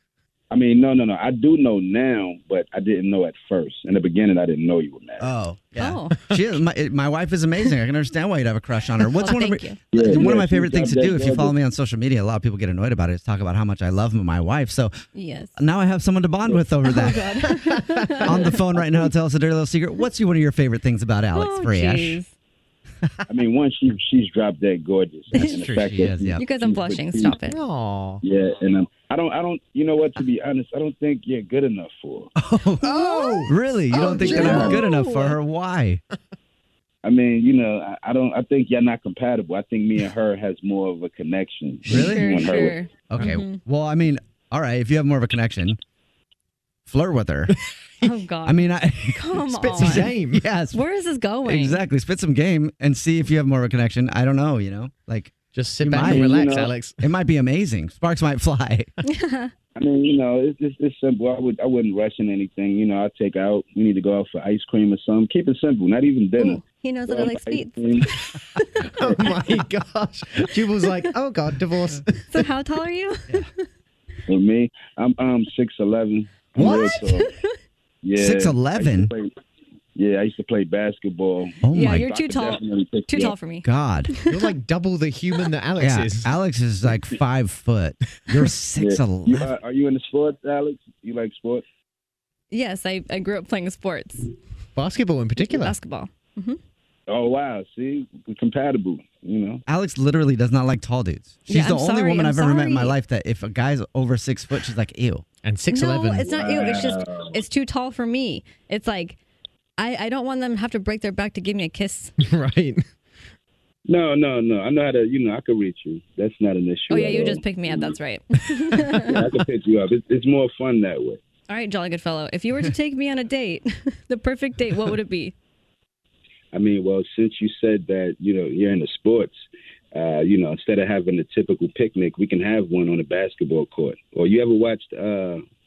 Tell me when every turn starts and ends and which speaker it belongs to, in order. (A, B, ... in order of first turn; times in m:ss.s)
0:00.5-0:05.3 A
0:05.2-0:14.9 B
0:05.8-0:06.2 C
0:09.1-0:10.3 C
0:09.9-0:11.5 A
0:15.1-0:15.6 C
0:15.6-0:17.3 B
0:16.8-0:18.6 C
0:17.4-0:18.0 D
0:18.2-0:22.2 B
0:21.3-0:22.3 C
0:23.3-0:27.4 A
0:25.3-0:27.6 C
0:25.6-0:25.9 D
0:25.9-0:26.4 B
0:27.4-0:28.2 D
0:28.2-0:32.3 A
0:32.4-0:32.9 B
0:32.8-0:34.7 D
0:32.9-0:35.4 C
0:33.4-0:36.0 B
0:34.3-0:34.8 A
0:37.0-0:42.8 A
0:41.9-0:45.8 B
0:41.9-0:43.6 C
0:46.9-0:47.6 B
0:48.0-0:50.1 C
0:48.4-0:49.2 B
0:49.3-0:50.5 D
0:49.8-0:50.8 B
0:50.7-0:51.8 C
0:51.4-0:56.4 B
0:55.5-0:57.0 D
0:56.0-0:56.8 A
0:57.0-0:58.9 B
0:59.0-0:59.5 C
0:59.8-1:08.1 A
1:06.4-1:08.2 C
1:08.8-1:12.5 D
1:10.8-1:11.1 C
1:12.3-1:13.5 C
1:14.3-1:17.3 A
1:16.6-1:16.9 D
1:16.6-1:17.5 C
1:18.0-1:19.3 A
1:18.2-1:19.1 B
1:20.0-1:23.4 A
1:21.6-1:22.1 B
1:21.7-1:24.5 C
1:23.6-1:24.1 B
1:24.3-1:26.3 D
1:25.8-1:29.5 B
1:28.8-1:31.6 A
1:32.5-1:34.3 C
1:34.8-1:35.8 D
1:35.4-1:36.6 C
1:37.1-1:39.6 A
1:39.7-1:45.2 B
1:41.5-1:43.0 C
1:45.4-1:46.3 D
1:45.7-1:49.2 C
1:46.3-1:47.4 A
1:49.8-1:52.2 C
1:52.2-1:52.9 D
1:53.9-1:58.0 A
1:56.9-1:59.3 C
1:58.3-1:58.8 D
1:59.1-2:01.2 A
2:01.5-2:05.3 C
2:06.5-2:15.4 A